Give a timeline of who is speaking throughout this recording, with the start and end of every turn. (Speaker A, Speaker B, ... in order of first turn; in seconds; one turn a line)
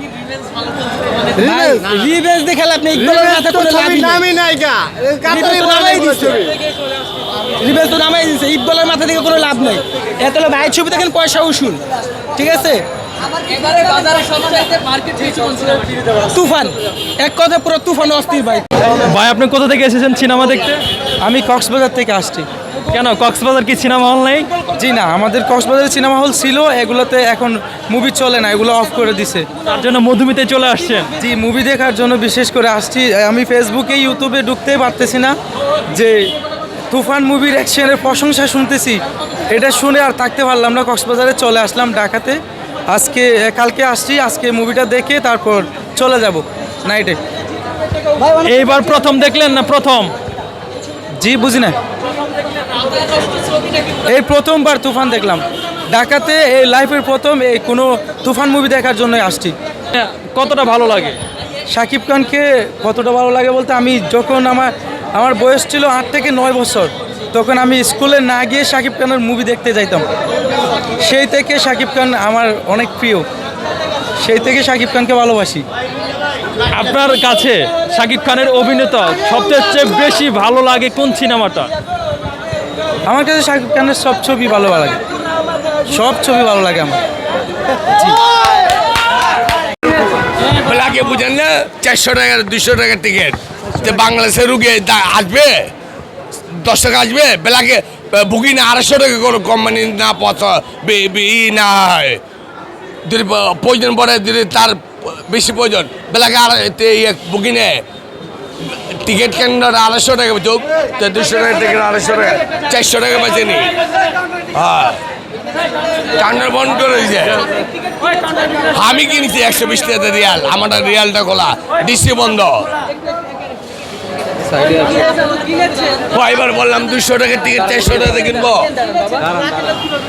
Speaker A: 1.4-4.2
Speaker B: 1.4-1.9
Speaker B: 3.0-6.5
Speaker A: 5.2-6.4
Speaker A: 7.6-11.8
Speaker A: 12.3-12.8
Speaker A: 15.2-15.7
Speaker A: 16.3-18.6
Speaker C: 19.1-20.8
Speaker D: 21.2-22.5
Speaker C: 22.9-24.5
Speaker D: 24.7-29.5
Speaker C: 29.7-31.1
Speaker D: 31.2-35.4
Speaker D: 35.9-36.3
Speaker D: 36.9-47.2
Speaker C: 48.4-50.1
Speaker D: 51.2-51.8
Speaker D: 54.0-59.5
Speaker C: 59.9-61.2
Speaker D: 61.7-70.1
Speaker D: 71.0-73.3
Speaker D: 74.2-75.6
Speaker C: 76.7-81.7
Speaker D: 83.0-85.0
Speaker D: 85.9-87.0
Speaker D: 87.9-88.2
Speaker E: 90.6-95.5
Speaker E: 96.6-102.2
Speaker E: 103.0-107.8
Speaker E: 108.7-113.7
Speaker E: 114.5-115.0
Speaker E: 116.2-117.5
Speaker E: 118.7-122.7
Speaker E: 126.1-129.2